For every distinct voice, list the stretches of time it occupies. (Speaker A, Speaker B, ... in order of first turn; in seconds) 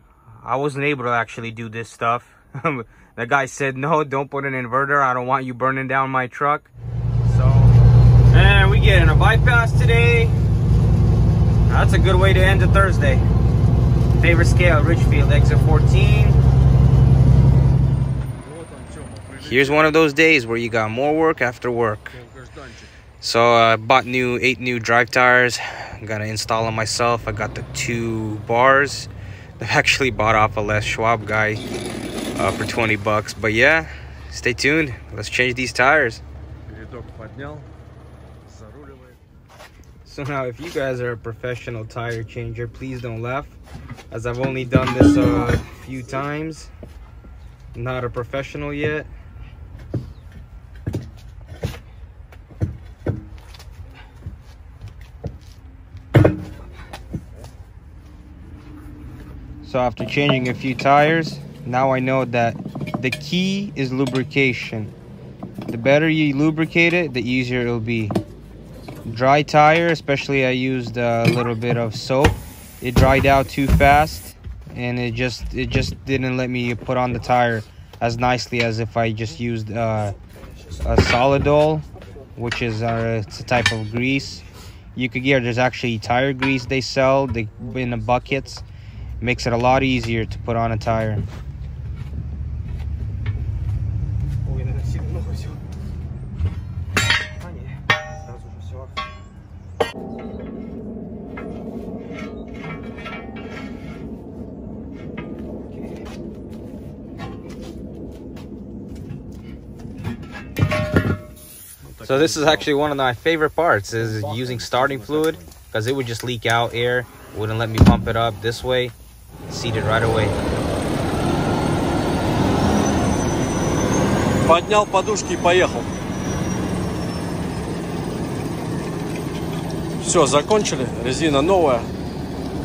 Speaker A: 0.4-6.7, 7.2-7.8, 8.3-10.3, 11.7-13.2, 14.2-16.4, 19.4-22.2, 23.2-31.6, 32.4-36.2, 40.0-43.6, 44.1-46.7, 47.7-49.1, 59.6-64.9, 65.7-68.2, 69.0-80.2, 80.8-81.8, 82.3-84.4, 85.0-88.7, 89.2-91.2, 94.5-95.5, 97.4-97.7, 98.2-98.8, 105.7-106.0, 112.0-118.9, 119.5-120.4
Speaker B: 18.5-19.3, 36.7-37.7, 38.5-39.1, 111.8-112.7, 124.4-125.9, 130.0-131.9